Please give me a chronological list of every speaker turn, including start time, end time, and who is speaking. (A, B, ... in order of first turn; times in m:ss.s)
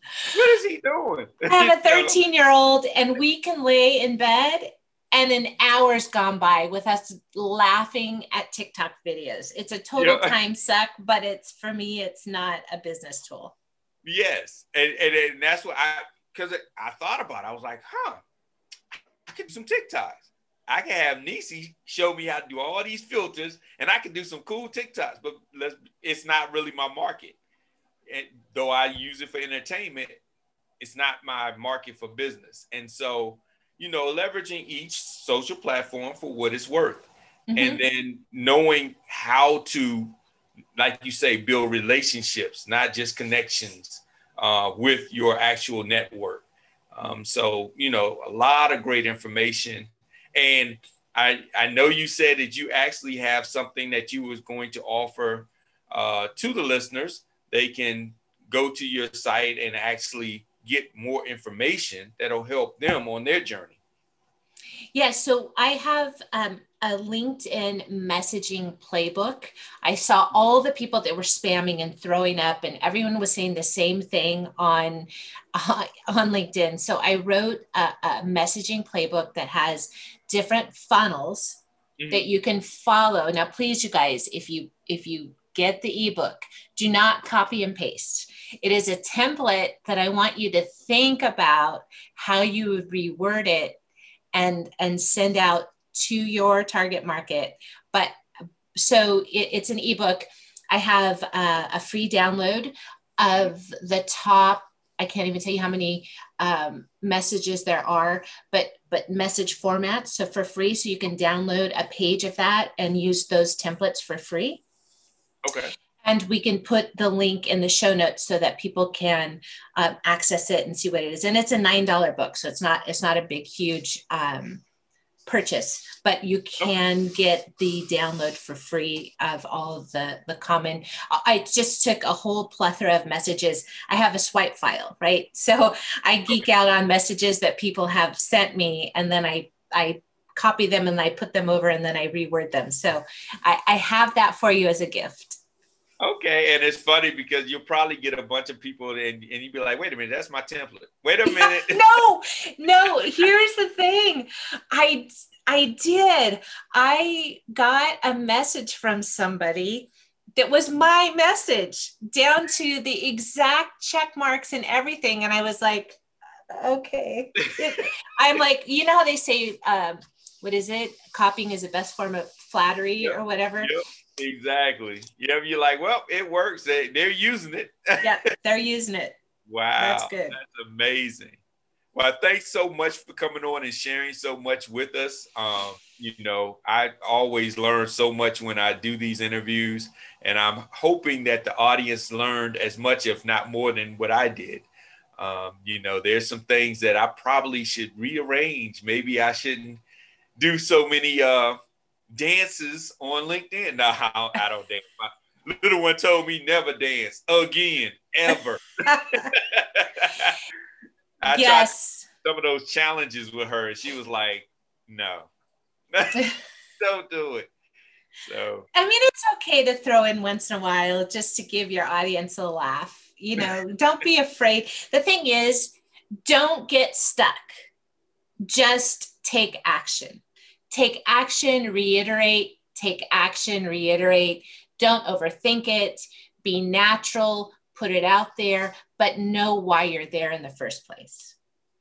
0:00.3-0:02.2 A
0:01.5-0:13.5 B
0:10.0-0:10.4 A
0:14.0-0:18.2 A
0:19.2-0:27.4 A
0:28.1-0:30.2 A
0:30.8-0:40.1 A
0:37.5-0:37.8 B
0:40.8-1:03.8 A
1:04.9-1:33.8 B
1:22.0-1:22.3 A
1:34.3-1:38.1 B
1:38.7-1:54.6 B
1:55.4-1:55.7 A
1:56.0-2:04.6 B
2:05.2-2:25.4 B
2:26.0-2:32.0 A
2:31.2-2:46.0 B
2:46.5-2:53.7 B
2:47.4-2:47.9 A
2:53.0-2:58.3 A
2:58.0-2:59.2 B
2:59.5-3:01.4 A
2:59.8-3:00.4 B
3:01.9-3:14.6 A
3:15.2-3:19.8 A
3:20.4-3:21.6 A
3:22.1-3:30.4 A
3:28.9-3:29.3 B
3:31.2-3:31.7 A
3:31.3-3:32.1 B
3:32.2-3:35.3 A
3:35.9-3:37.5 A
3:38.2-3:38.7 A
3:38.7-3:47.5 B
3:48.4-4:01.3 B